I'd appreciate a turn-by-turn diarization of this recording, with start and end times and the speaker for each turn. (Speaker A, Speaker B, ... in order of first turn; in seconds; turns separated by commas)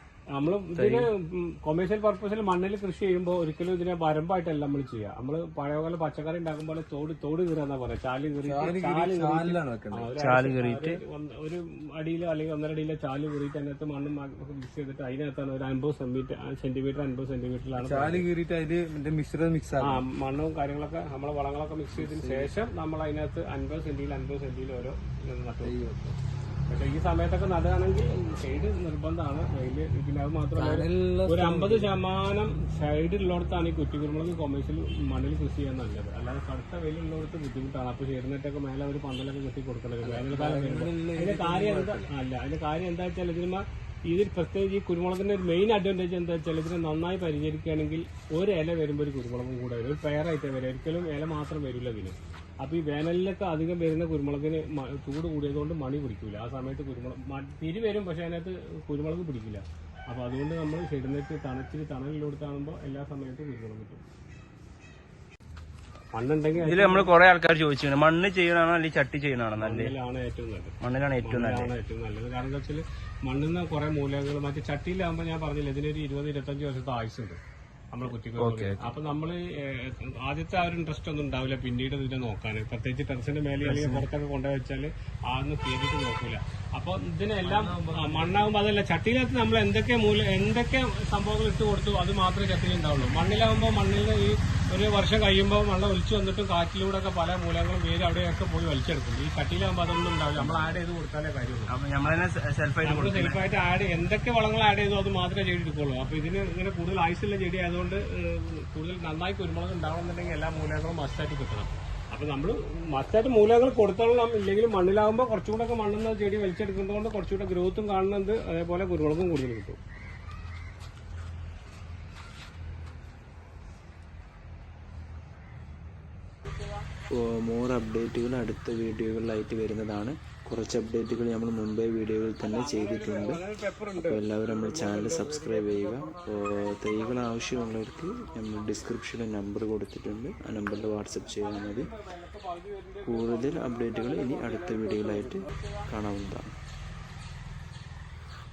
Speaker A: 0.3-18.2, Speaker B: 0.7-1.0, Speaker C: 8.4-10.1, Speaker B: 10.2-11.0, Speaker C: 17.8-20.0, Speaker A: 19.8-25.9, Speaker C: 21.9-22.5, Speaker C: 25.6-26.1, Speaker A: 26.7-64.0, Speaker C: 30.5-31.9, Speaker C: 40.0-42.1, Speaker A: 66.1-67.1, Speaker B: 66.5-69.9, Speaker A: 69.6-77.4, Speaker B: 70.8-71.7, Speaker A: 77.9-101.7, Speaker B: 78.3-78.9, Speaker C: 83.6-84.0, Speaker C: 87.4-88.5, Speaker B: 100.4-100.7, Speaker B: 101.7-103.4, Speaker A: 102.8-119.8, Speaker D: 127.1-133.4, Speaker A: 132.4-138.9, Speaker D: 133.9-141.9, Speaker A: 140.7-145.9, Speaker D: 143.0-146.5